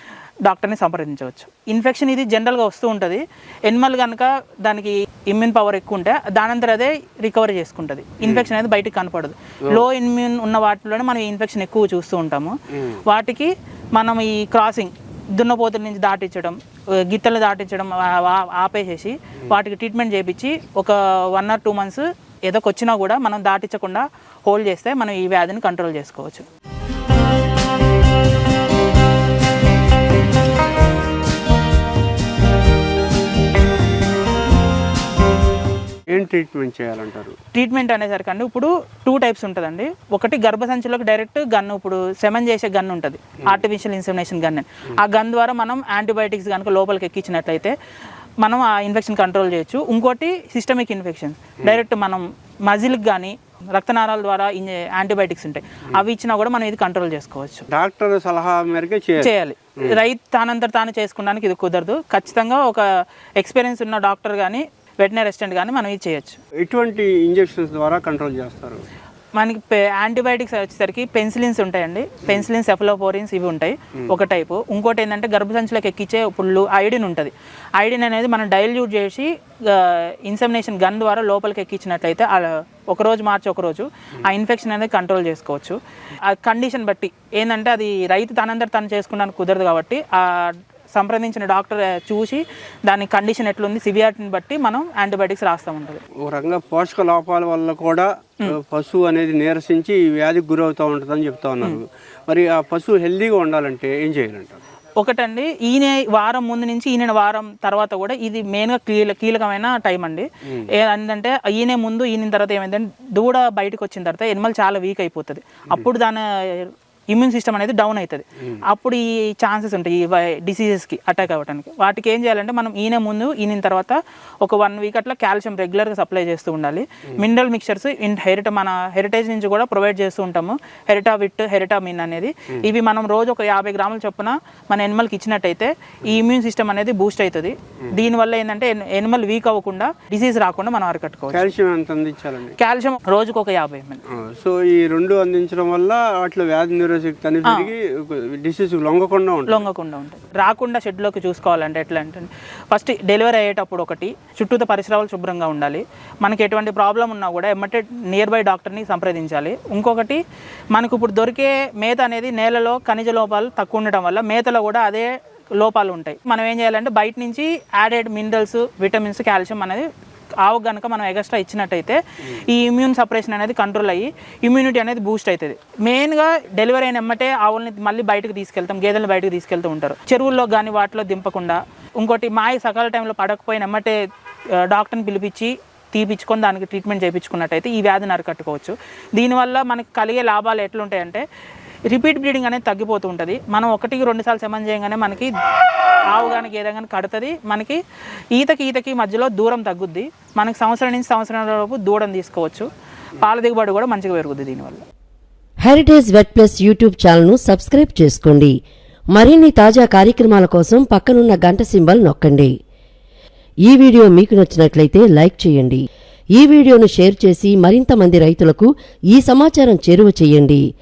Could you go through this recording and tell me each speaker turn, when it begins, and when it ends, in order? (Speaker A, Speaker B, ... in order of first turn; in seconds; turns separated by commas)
Speaker A: 0.5-26.4, Speaker B: 36.1-37.4, Speaker A: 37.5-47.7, Speaker A: 48.4-57.7, Speaker B: 57.7-59.3, Speaker A: 59.2-62.8, Speaker A: 63.4-66.4, Speaker B: 66.6-68.8, Speaker A: 69.4-96.0, Speaker B: 96.2-104.6, Speaker A: 105.0-141.5, Speaker B: 141.3-142.6, Speaker A: 142.6-144.0, Speaker B: 144.1-149.7, Speaker A: 147.5-147.7, Speaker A: 149.5-160.2, Speaker A: 160.7-169.9, Speaker A: 170.4-184.0, Speaker A: 184.7-191.2, Speaker A: 191.9-195.3, Speaker A: 196.1-197.8, Speaker A: 198.3-202.7, Speaker A: 203.2-204.8, Speaker C: 205.6-208.6, Speaker C: 209.1-212.5, Speaker C: 213.7-215.8, Speaker C: 216.4-220.6